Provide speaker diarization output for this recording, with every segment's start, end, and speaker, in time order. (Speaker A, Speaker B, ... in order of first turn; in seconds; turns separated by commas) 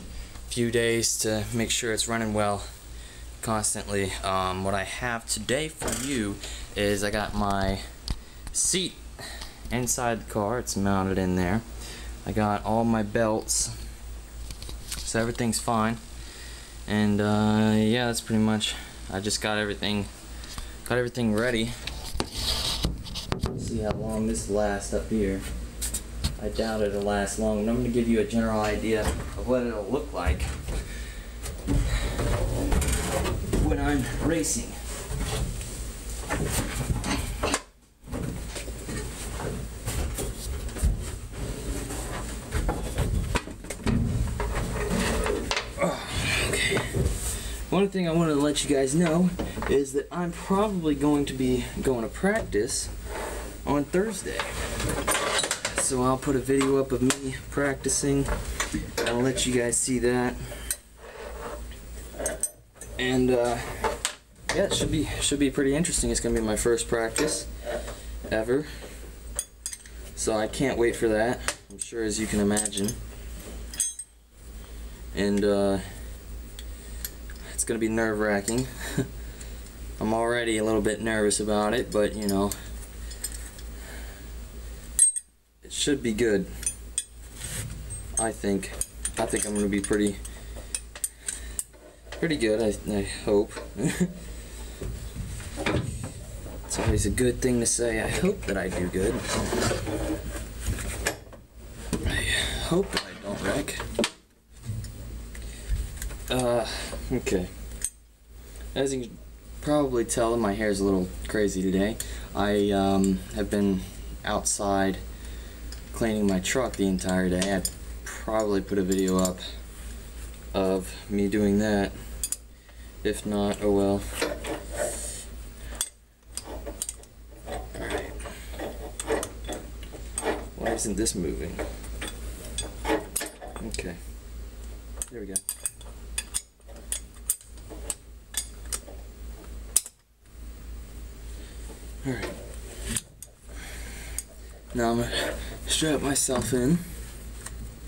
Speaker A: 0.5-2.7, Speaker A: 3.4-7.8, Speaker A: 8.5-11.6, Speaker A: 12.2-13.7, Speaker A: 15.0-16.0, Speaker A: 16.9-20.1, Speaker A: 20.9-21.7, Speaker A: 23.5-25.4, Speaker A: 26.4-30.5, Speaker A: 33.5-34.8, Speaker A: 45.8-52.9, Speaker A: 53.6-54.5, Speaker A: 55.6-58.3, Speaker A: 59.0-60.4, Speaker A: 63.0-64.0, Speaker A: 64.5-67.5, Speaker A: 68.3-68.9, Speaker A: 70.1-73.0, Speaker A: 75.1-75.8, Speaker A: 77.4-79.0, Speaker A: 80.0-82.5, Speaker A: 85.6-86.5, Speaker A: 88.2-90.2, Speaker A: 92.2-94.1, Speaker A: 96.7-99.5, Speaker A: 102.0-103.8, Speaker A: 106.3-107.5, Speaker A: 108.7-115.0, Speaker A: 115.9-119.4, Speaker A: 120.5-121.9, Speaker A: 123.0-124.0, Speaker A: 127.7-128.2, Speaker A: 130.5-131.6, Speaker A: 133.6-134.0, Speaker A: 135.1-135.4, Speaker A: 142.0-142.3, Speaker A: 144.7-146.8